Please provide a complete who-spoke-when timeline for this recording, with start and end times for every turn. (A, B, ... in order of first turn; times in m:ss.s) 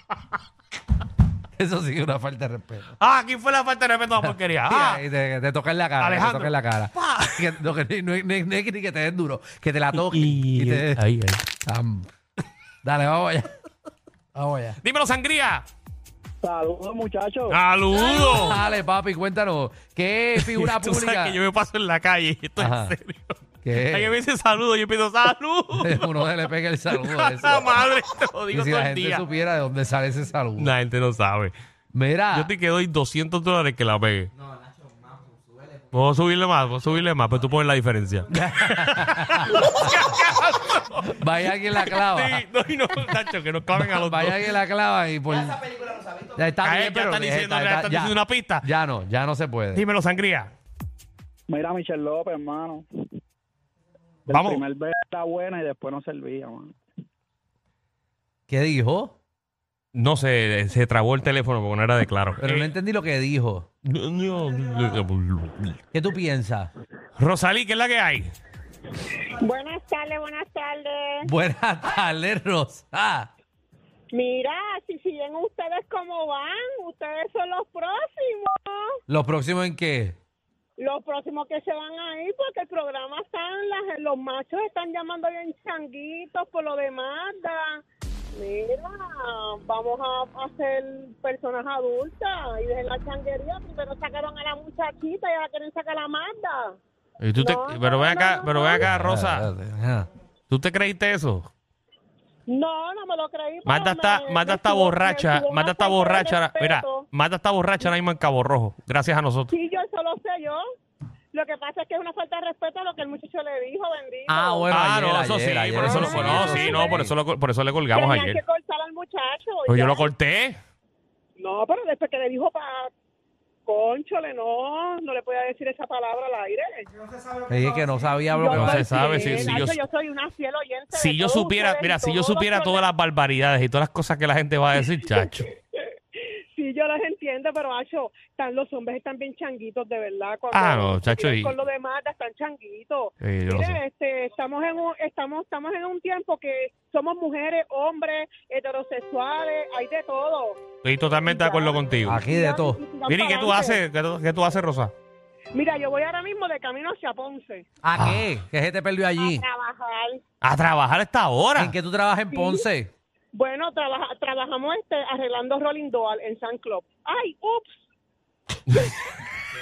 0:01.6-0:02.9 A
0:03.0-0:05.0 B
0:04.7-0:11.0 A
0:06.0-0:07.6 B
0:09.9-0:11.5 B
0:11.6-0:12.1 A
0:12.8-0:13.5 A
0:14.3-0:14.8 A
0:14.8-0:15.6 B
0:16.5-0:17.6 C
0:17.5-0:18.6 B
0:17.9-0:21.4 A
0:20.4-0:26.4 B
0:22.6-0:23.0 A
0:23.6-0:24.2 A
0:25.8-0:27.7 A
0:26.9-0:29.2 B
0:28.5-0:30.8 A
0:30.6-0:31.5 B
0:31.9-0:32.5 A
0:32.3-0:34.3 B
0:35.9-0:44.6 B
0:38.3-0:40.0 A
0:41.0-0:42.4 A
0:43.8-0:45.7 A
0:46.3-0:49.8 A
0:46.6-0:48.6 B
0:49.7-0:50.5 B
0:51.5-0:52.9 C
0:54.3-0:54.6 B
0:54.3-0:56.8 C
0:58.5-0:59.2 A
0:59.9-1:02.8 B
1:02.4-1:03.7 A
1:03.8-1:05.8 B
1:05.9-1:06.7 A
1:07.2-1:08.3 B
1:09.3-1:11.3 D
1:11.2-1:13.3 A
1:14.1-1:19.0 D
1:19.1-1:20.2 A
1:20.8-1:36.8 D
1:37.2-1:39.5 B
1:37.4-1:38.9 D
1:38.8-1:40.1 A
1:40.5-1:41.5 B
1:42.5-1:47.1 D
1:43.7-1:49.5 B
1:49.5-1:50.6 D
1:51.3-1:54.7 D
1:54.3-1:57.1 A
1:54.7-1:58.4 B
1:55.8-1:57.0 D
1:57.9-2:00.1 D
1:59.7-2:00.6 B
2:01.4-2:02.9 D
2:03.7-2:06.9 D
2:07.5-2:09.7 A
2:08.3-2:12.8 D
2:08.5-2:09.8 B
2:10.9-2:15.5 B
2:16.2-2:30.6 D
2:20.5-2:21.5 B
2:23.2-2:23.8 B
2:30.8-2:32.2 B
2:31.3-2:33.8 D
2:32.1-2:32.8 A
2:33.1-2:34.9 B
2:35.5-2:37.6 D
2:37.8-2:39.4 A
2:38.0-2:38.3 B
2:39.2-2:40.2 D
2:40.4-2:41.7 B
2:41.6-2:42.9 A
2:42.3-2:42.7 D
2:43.3-2:47.8 D